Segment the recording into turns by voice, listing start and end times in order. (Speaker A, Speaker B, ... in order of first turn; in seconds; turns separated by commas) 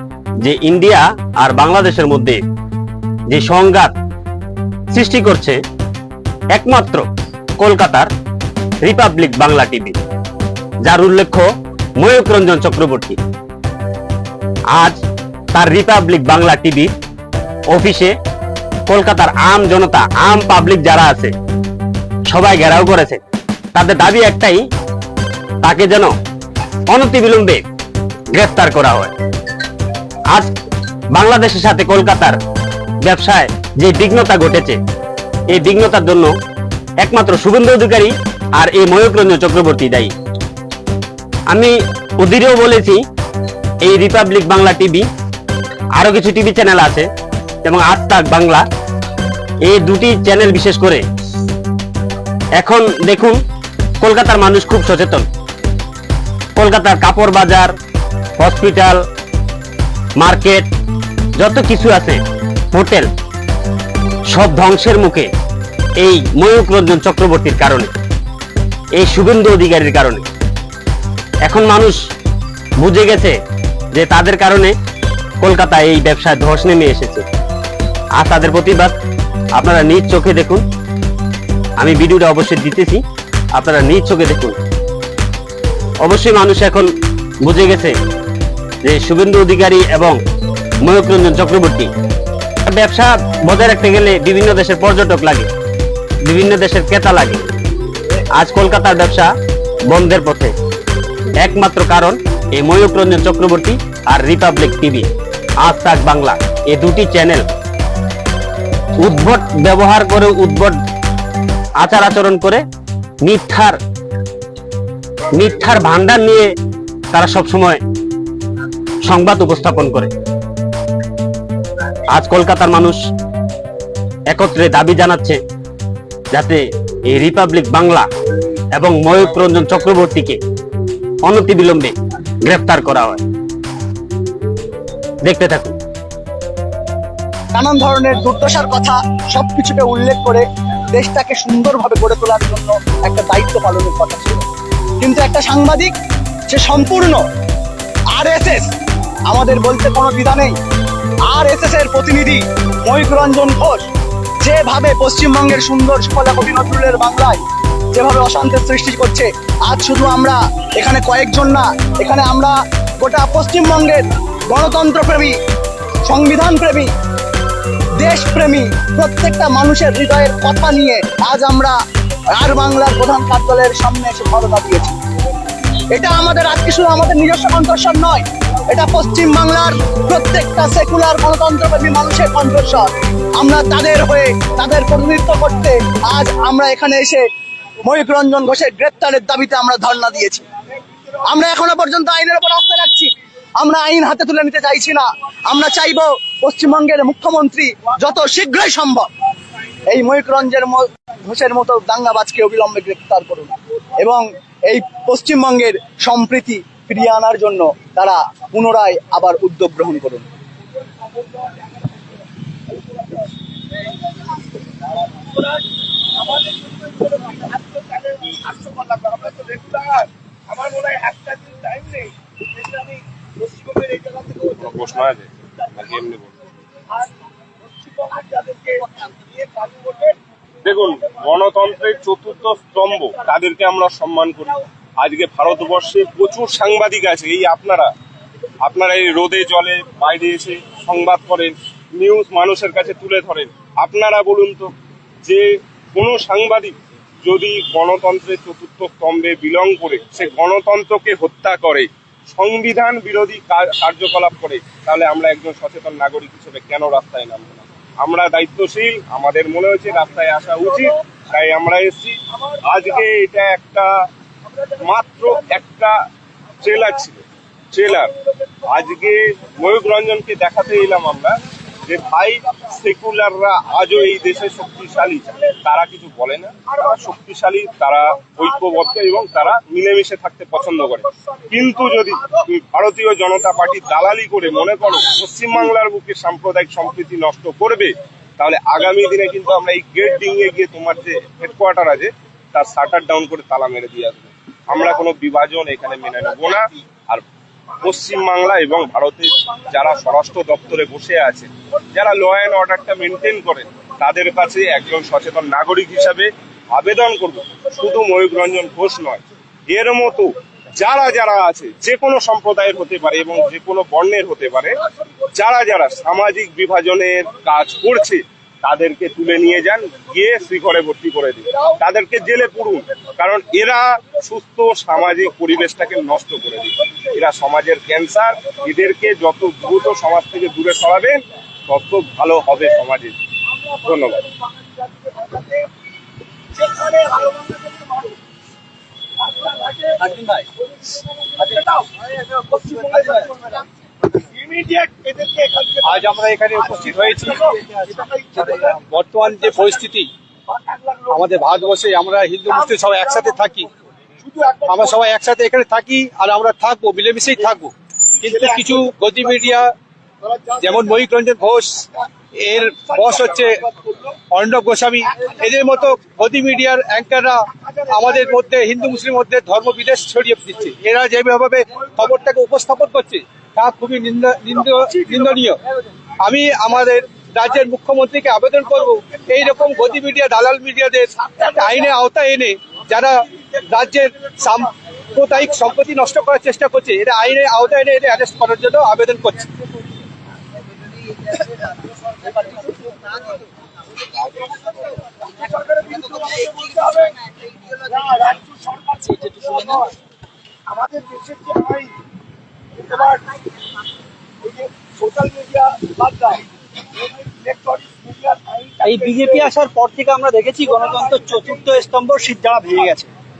Speaker A: 0.4-2.4, Speaker A: 3.3-3.9, Speaker A: 4.9-5.6, Speaker A: 6.5-7.0, Speaker A: 7.6-8.1, Speaker A: 8.8-10.0, Speaker A: 10.8-11.5, Speaker A: 12.0-13.2, Speaker A: 14.7-15.0, Speaker A: 15.5-16.9, Speaker A: 17.7-18.1, Speaker A: 18.9-21.3, Speaker A: 22.3-23.2, Speaker A: 23.8-24.6, Speaker A: 25.6-26.1, Speaker A: 26.9-27.6, Speaker A: 28.3-29.1, Speaker A: 31.1-32.4, Speaker A: 33.0-34.8, Speaker A: 35.5-36.3, Speaker A: 37.0-40.1, Speaker A: 41.5-43.0, Speaker A: 43.9-45.1, Speaker A: 46.0-47.1, Speaker A: 47.6-48.6, Speaker A: 49.6-51.0, Speaker A: 52.6-53.4, Speaker A: 54.0-55.3, Speaker A: 56.6-57.7, Speaker A: 58.4-59.0, Speaker A: 60.2-60.7, Speaker A: 61.4-62.2, Speaker A: 62.7-63.1, Speaker A: 64.3-65.3, Speaker A: 66.0-67.9, Speaker A: 69.0-70.2, Speaker A: 71.5-72.0, Speaker A: 72.8-73.4, Speaker A: 74.0-74.7, Speaker A: 75.4-77.2, Speaker A: 78.2-79.0, Speaker A: 79.6-80.6, Speaker A: 81.8-83.0, Speaker A: 83.6-84.6, Speaker A: 86.0-86.9, Speaker A: 87.4-87.9, Speaker A: 88.8-90.2, Speaker A: 90.8-91.9, Speaker A: 92.7-95.5, Speaker A: 96.3-97.4, Speaker A: 98.4-99.3, Speaker A: 99.9-100.5, Speaker A: 101.4-105.1, Speaker A: 105.6-107.4, Speaker A: 109.0-110.8, Speaker A: 111.8-112.6, Speaker A: 113.2-113.8, Speaker A: 115.3-116.5, Speaker A: 117.1-117.8, Speaker A: 119.1-120.1, Speaker A: 122.2-123.0, Speaker A: 124.3-125.4, Speaker A: 126.3-128.1, Speaker A: 128.8-130.4, Speaker A: 131.3-131.9, Speaker A: 132.5-133.2, Speaker A: 135.3-135.8, Speaker B: 137.5-140.4, Speaker B: 140.9-144.4, Speaker B: 145.0-145.9, Speaker B: 146.5-147.2, Speaker B: 148.2-148.7, Speaker B: 149.3-150.5, Speaker B: 151.3-153.9, Speaker B: 154.4-157.4, Speaker B: 157.9-165.3, Speaker B: 166.1-166.9, Speaker B: 168.0-171.8, Speaker B: 172.3-174.9, Speaker B: 175.9-187.2, Speaker B: 187.8-190.4, Speaker B: 191.2-199.1, Speaker B: 199.9-210.2, Speaker C: 211.3-211.7, Speaker C: 212.8-213.3, Speaker C: 215.2-215.4, Speaker C: 216.2-224.8, Speaker D: 224.5-226.4, Speaker C: 227.8-230.2, Speaker D: 230.6-237.9, Speaker D: 238.6-244.7, Speaker D: 245.2-263.9, Speaker D: 264.8-265.9, Speaker D: 266.6-268.1, Speaker D: 268.6-297.2, Speaker D: 297.8-314.8, Speaker D: 315.4-333.1, Speaker D: 333.8-334.2, Speaker C: 334.4-335.7, Speaker C: 336.6-338.1, Speaker C: 339.2-340.1, Speaker C: 341.4-343.6, Speaker C: 344.3-348.7, Speaker E: 345.8-350.1, Speaker C: 350.5-351.6, Speaker E: 351.1-353.7, Speaker C: 354.3-355.0, Speaker E: 354.7-359.7, Speaker C: 360.2-361.0, Speaker E: 360.6-361.9, Speaker E: 362.4-363.7, Speaker C: 362.9-363.4, Speaker E: 364.3-375.6, Speaker E: 376.2-389.5, Speaker C: 395.4-397.1, Speaker C: 397.8-399.9, Speaker C: 400.7-401.9, Speaker C: 402.8-403.3, Speaker C: 404.4-406.4, Speaker C: 407.2-409.5, Speaker F: 408.8-413.1